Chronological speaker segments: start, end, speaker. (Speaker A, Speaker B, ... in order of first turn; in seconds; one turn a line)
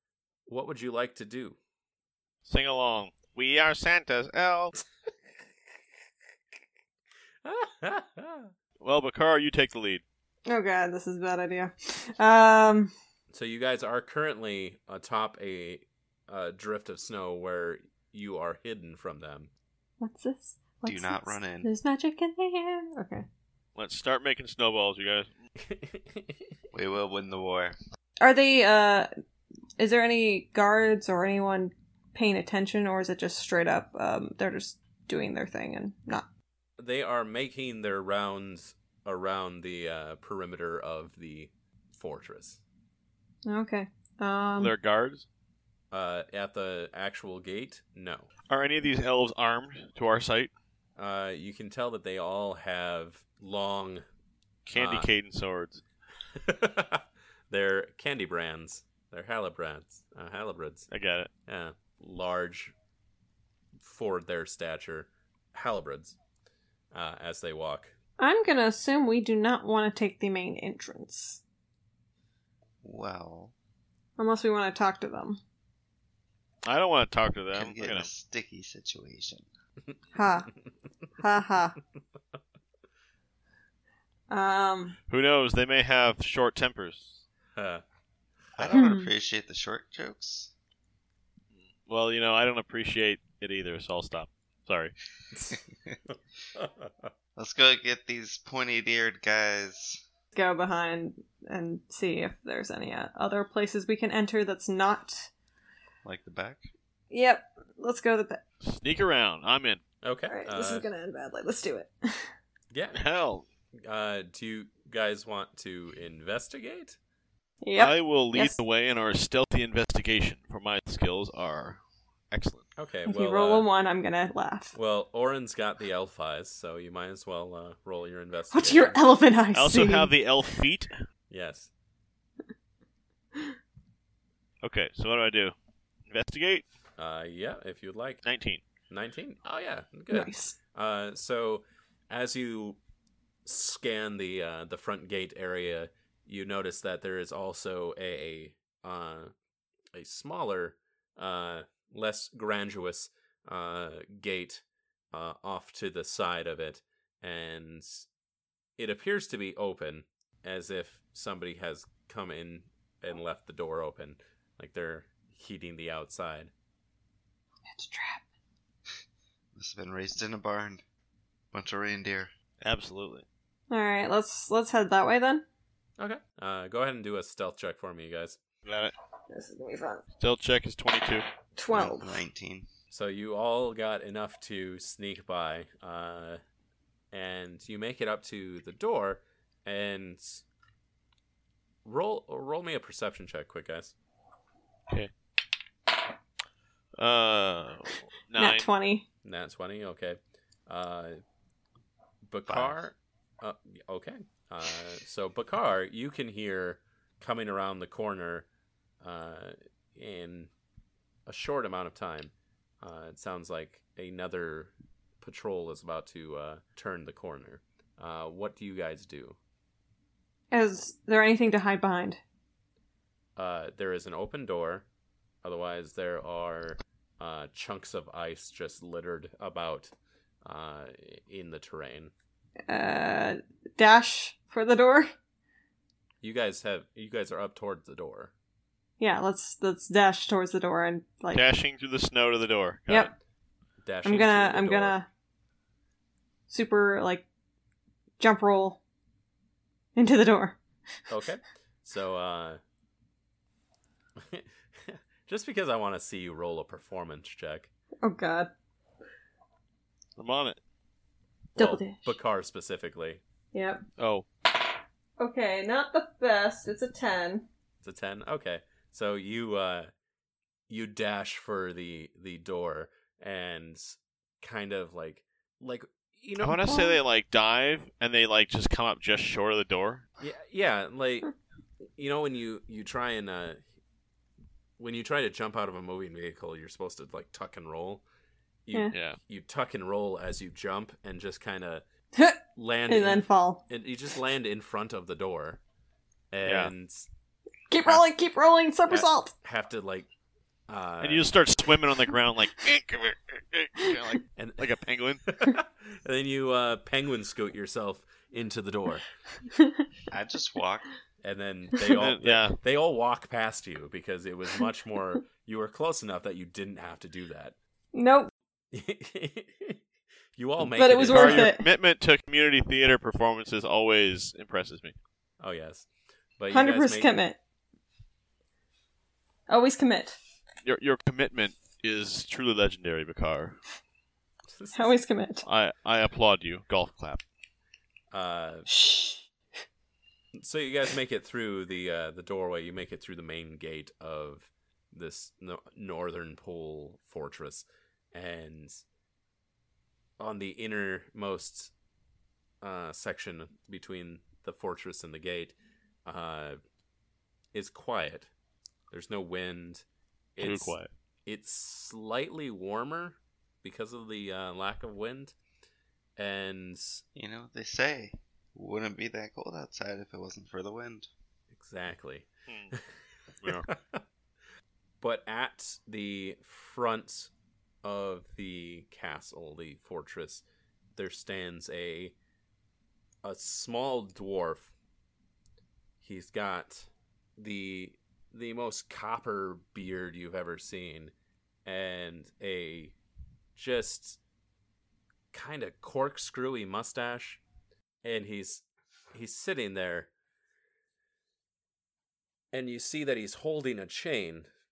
Speaker A: 0.5-1.6
Speaker B: 2.4-4.7
Speaker A: 7.4-8.5
Speaker B: 8.8-10.0
Speaker C: 10.5-12.9
Speaker A: 13.3-19.5
Speaker C: 20.0-23.2
Speaker D: 20.8-21.7
Speaker B: 23.7-25.3
Speaker A: 25.6-26.4
Speaker D: 26.7-27.7
Speaker C: 28.2-29.1
Speaker C: 29.8-36.2
Speaker A: 36.8-42.6
Speaker C: 43.5-44.7
Speaker B: 44.6-45.2
Speaker A: 45.9-48.3
Speaker B: 48.5-50.5
Speaker A: 51.0-54.0
Speaker B: 54.6-55.8
Speaker A: 54.7-55.1
Speaker A: 56.4-60.9
Speaker B: 60.9-61.3
Speaker A: 61.5-62.7
Speaker A: 63.8-66.2
Speaker A: 66.9-67.9
Speaker C: 68.2-71.4
Speaker D: 72.8-73.5
Speaker C: 74.2-75.4
Speaker B: 76.6-78.1
Speaker D: 77.5-79.5
Speaker C: 80.1-80.5
Speaker C: 81.2-81.8
Speaker C: 84.3-85.0
Speaker B: 85.1-87.2
Speaker A: 87.5-87.8
Speaker A: 88.6-88.9
Speaker D: 88.6-90.5
Speaker C: 88.7-89.1
Speaker B: 91.8-94.9
Speaker A: 95.3-95.6
Speaker A: 96.5-97.1
Speaker D: 97.3-100.0
Speaker C: 100.3-105.3
Speaker D: 106.0-106.7
Speaker C: 107.1-108.4
Speaker B: 108.6-109.8
Speaker A: 110.0-110.9
Speaker C: 110.3-112.3
Speaker A: 112.7-113.0
Speaker B: 112.9-113.4
Speaker A: 113.8-117.0
Speaker C: 117.6-118.6
Speaker B: 117.8-121.8
Speaker B: 122.3-122.7
Speaker A: 122.8-123.7
Speaker C: 123.1-124.8
Speaker A: 124.7-129.0
Speaker C: 128.5-130.1
Speaker B: 129.5-130.9
Speaker A: 131.3-131.7
Speaker B: 134.6-135.5
Speaker B: 136.1-136.6
Speaker A: 137.0-138.2
Speaker B: 138.2-138.6
Speaker A: 138.9-142.8
Speaker C: 140.1-140.5
Speaker A: 143.4-149.3
Speaker A: 149.9-158.0
Speaker A: 158.8-166.5
Speaker C: 167.7-168.2
Speaker D: 169.5-170.8
Speaker D: 171.5-172.3
Speaker B: 172.6-173.2
Speaker C: 173.7-175.4
Speaker A: 176.0-178.4
Speaker B: 178.6-178.9
Speaker C: 179.3-180.0
Speaker B: 180.2-181.2
Speaker C: 181.6-182.2
Speaker D: 181.7-182.7
Speaker A: 182.9-186.4
Speaker A: 187.1-190.4
Speaker A: 191.8-193.9
Speaker B: 196.9-198.7
Speaker C: 198.4-199.0
Speaker A: 199.2-201.2
Speaker A: 202.2-208.5
Speaker A: 209.0-210.5
Speaker A: 211.3-219.4
Speaker C: 220.5-222.2
Speaker A: 223.3-224.8
Speaker A: 225.4-229.9
Speaker A: 230.4-232.1
Speaker C: 232.7-235.1
Speaker A: 236.2-238.3
Speaker C: 239.0-241.4
Speaker B: 241.3-243.1
Speaker A: 243.8-245.0
Speaker C: 244.0-245.1
Speaker C: 246.5-247.2
Speaker C: 248.2-248.8
Speaker C: 249.9-250.6
Speaker A: 251.1-252.6
Speaker A: 254.2-257.7
Speaker C: 258.0-258.5
Speaker B: 260.2-260.6
Speaker C: 261.6-262.1
Speaker A: 261.6-263.2
Speaker C: 263.5-263.8
Speaker B: 264.0-264.2
Speaker C: 265.2-267.5
Speaker A: 267.8-269.9
Speaker A: 270.7-276.8
Speaker B: 276.4-280.1
Speaker C: 276.6-277.0
Speaker A: 280.2-281.3
Speaker A: 281.9-283.6
Speaker A: 284.8-288.0
Speaker A: 288.6-291.8
Speaker B: 288.9-289.2
Speaker C: 292.1-293.6
Speaker A: 292.5-295.6
Speaker A: 296.3-297.1
Speaker B: 296.4-296.7
Speaker C: 297.7-299.3
Speaker A: 298.9-300.1
Speaker A: 300.7-301.3
Speaker B: 301.0-305.2
Speaker A: 304.4-304.7
Speaker A: 305.3-309.0
Speaker C: 309.6-309.8
Speaker D: 310.1-310.9
Speaker A: 311.2-317.5
Speaker B: 311.9-312.6
Speaker C: 317.9-318.3
Speaker A: 318.7-319.8
Speaker A: 320.4-321.5
Speaker C: 320.8-321.6
Speaker B: 321.0-324.9
Speaker A: 325.4-325.9
Speaker A: 326.4-327.1
Speaker C: 326.5-327.4
Speaker C: 329.5-330.2
Speaker B: 330.6-333.6
Speaker A: 334.5-334.9
Speaker C: 334.7-335.4
Speaker B: 335.4-337.2
Speaker A: 338.1-338.7
Speaker C: 338.7-339.3
Speaker A: 340.4-348.7
Speaker A: 350.2-351.7
Speaker A: 352.6-355.5
Speaker A: 356.1-356.6
Speaker A: 357.5-358.3
Speaker A: 358.9-359.8
Speaker A: 360.4-365.3
Speaker B: 360.4-360.9
Speaker A: 366.2-367.0
Speaker D: 367.1-371.1
Speaker A: 371.5-372.8
Speaker B: 372.5-372.7
Speaker B: 373.4-373.7
Speaker A: 373.4-374.0
Speaker A: 375.0-377.3
Speaker A: 377.8-380.4
Speaker A: 380.9-382.1
Speaker A: 383.2-384.7
Speaker A: 386.0-391.1
Speaker A: 391.6-392.9
Speaker A: 393.6-394.2
Speaker A: 395.3-397.4
Speaker A: 398.0-400.1
Speaker A: 402.5-404.5